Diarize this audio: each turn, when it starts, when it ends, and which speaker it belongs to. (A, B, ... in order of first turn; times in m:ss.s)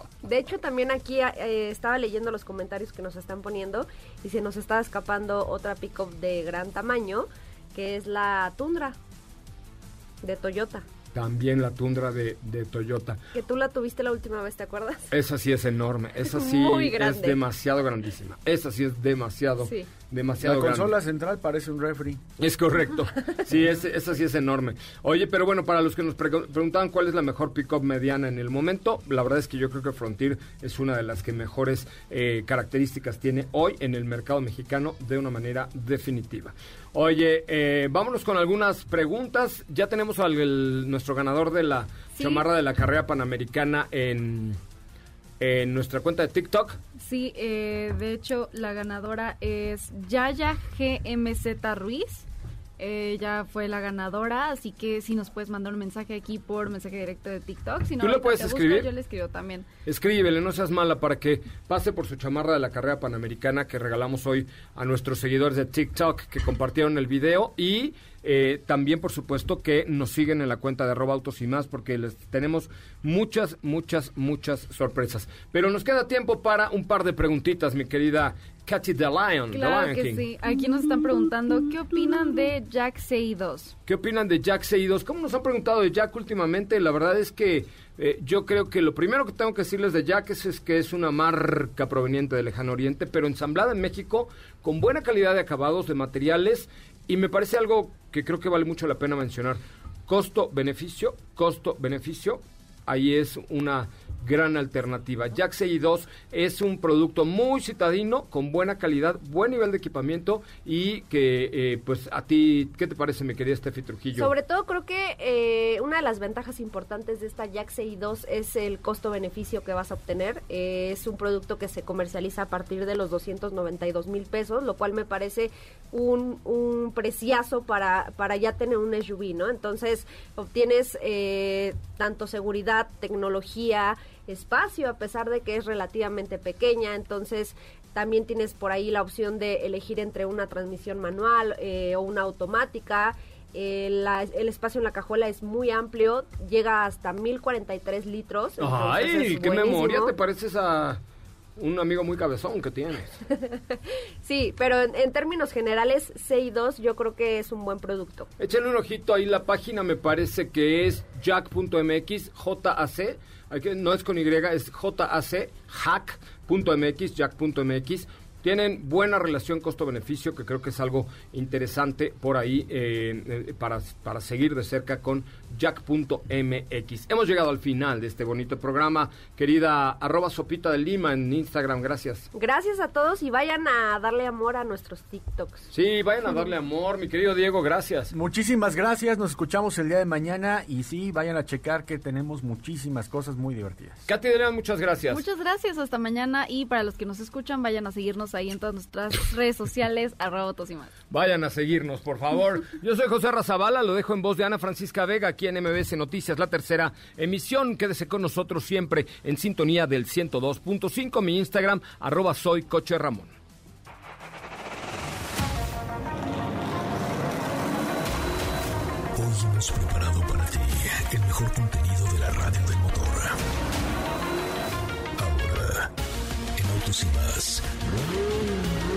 0:00.2-0:09.0 A
0:10.2-0:10.8 A
0:11.1-0:13.2 B
0:13.3-0:15.1 A
0:15.1-0:20.9 B
0:16.2-0:17.4 A
0:19.6-0:19.9 A
0:20.4-0:22.2 C
0:22.4-0:44.6 B
0:42.1-0:42.5 D
0:45.4-0:46.8 B
0:47.0-0:52.3 D
0:52.8-0:59.6 D
0:58.0-0:58.9 B
0:59.8-1:20.3 B
1:19.5-1:23.7 D
1:23.9-1:54.3 B
1:54.1-2:30.2 A
2:28.6-2:31.0 B
2:31.6-2:33.2 B
2:33.3-2:38.3 A
2:38.4-3:02.2 B
3:02.3-3:05.7 A
3:05.7-3:08.1 B
3:08.1-3:14.1 C
3:14.1-3:15.2 B
3:15.1-3:20.9 D
3:21.1-3:33.3 B
3:39.1-3:43.4 E
3:45.2-3:45.9 E
3:46.5-3:48.2 E